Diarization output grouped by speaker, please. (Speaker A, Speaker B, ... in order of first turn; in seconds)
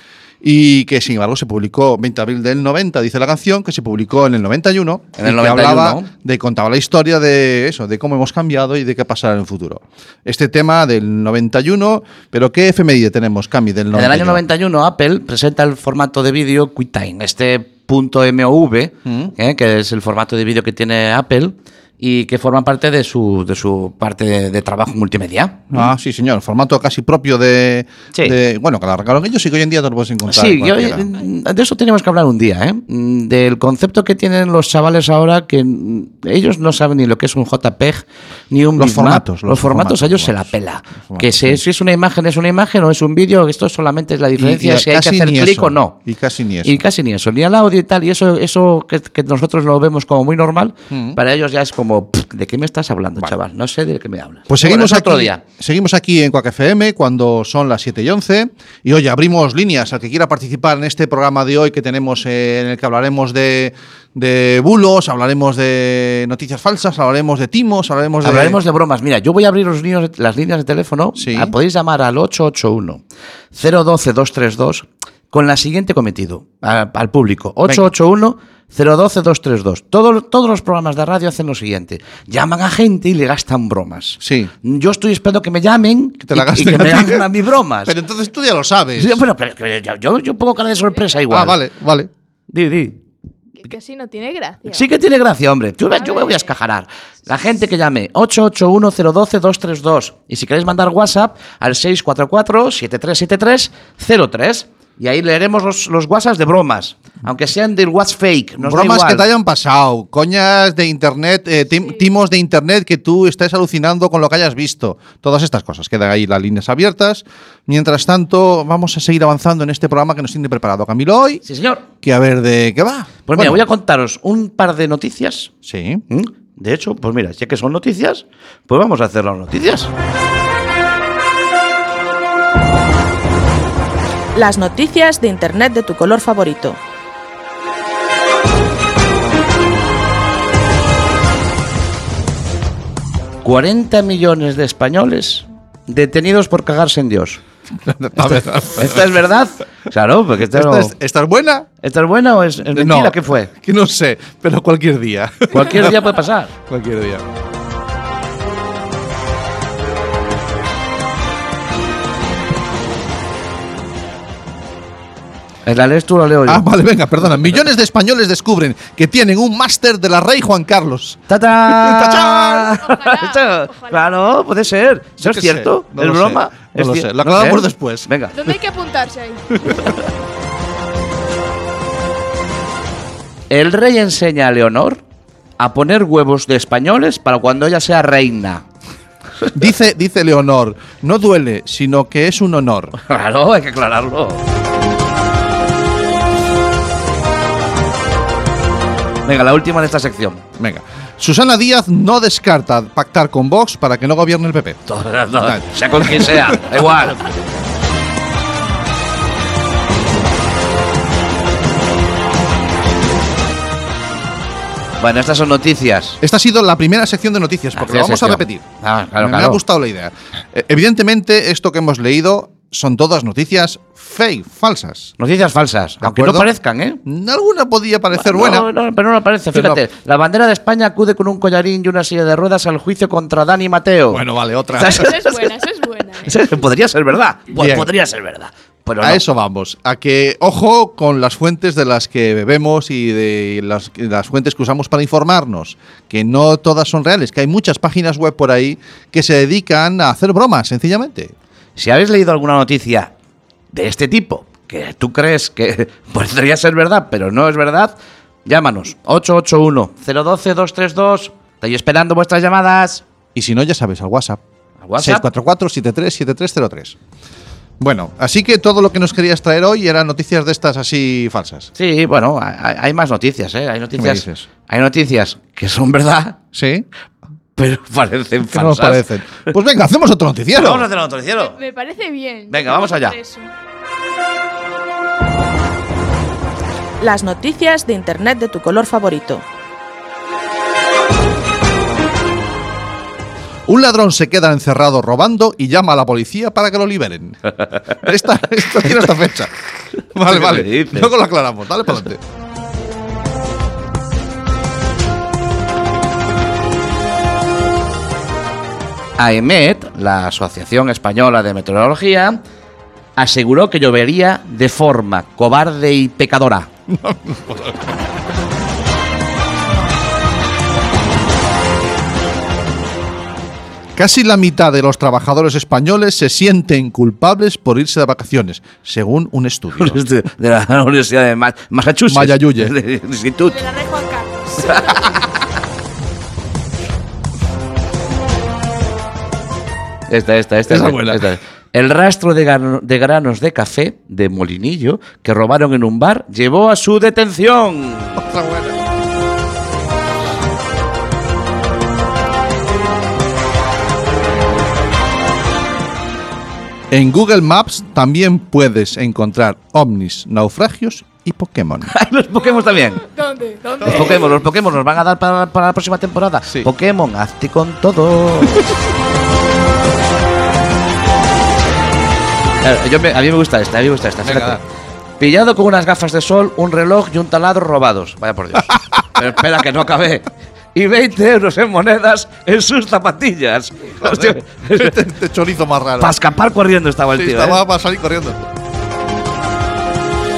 Speaker A: 0.4-14.4, 19.0-19.3, 25.7-31.1, 38.8-40.5, 41.0-41.6, 44.4-46.8, 50.9-51.2, 54.5-68.6, 71.2-71.5, 84.2-84.5, 86.2-87.3, 87.8-89.2, 91.3-92.1, 108.6-121.4, 122.0-123.6, 125.6-126.0, 147.8-149.1, 150.5-151.7, 152.7-156.1, 156.7-157.2, 166.5-172.8, 175.2-178.5, 179.6-179.9, 189.5-192.9, 200.6-204.8, 205.3-206.8, 216.2-218.6, 219.2-225.1, 226.0-226.5, 227.0-228.7, 229.5-229.8, 234.1-235.1, 237.6-237.9, 239.0-251.3, 263.3-264.4, 265.0-266.9, 267.8-271.7, 274.0-274.5, 276.5-276.9, 278.5-280.9, 293.7-299.5, 300.1-302.2, 316.9-318.0, 323.9-330.0, 332.1-332.7, 340.7-341.3, 348.2-348.7, 356.9-361.9, 363.8-364.2, 374.2-374.6, 384.0-386.2, 387.1-388.4
Speaker B: 5.2-6.1, 13.9-25.9, 30.2-46.0, 46.6-55.4, 68.2-73.0, 73.5-87.9, 89.0-91.6, 92.5-93.0, 94.7-109.2, 121.5-121.8, 123.3-125.5, 126.1-129.9, 143.4-147.4, 148.2-150.9, 151.8-153.5, 155.5-156.5, 165.7-166.6, 171.3-178.3, 183.5-185.0, 185.6-188.6, 193.0-194.4, 199.2-200.4, 204.9-207.2, 215.0-216.2, 217.8-219.6, 225.2-227.0, 228.1-234.2, 234.7-235.5, 236.2-239.2, 251.8-253.1, 253.7-263.0, 264.8-265.2, 271.7-276.4, 277.6-279.0, 280.5-281.6, 282.5-283.1, 300.2-301.1, 309.2-312.4, 313.2-316.7, 329.8-333.6, 334.6-335.3, 340.1-348.2, 361.9-363.0, 363.8-368.7, 372.6-374.6, 375.2-384.9, 386.0-387.6
Speaker C: 90.8-91.2, 93.6-94.9, 95.9-96.5, 172.3-174.2, 178.3-179.6, 234.8-236.4, 281.4-283.5, 333.4-335.3, 362.3-364.4
Speaker D: 134.3-136.8, 287.0-289.4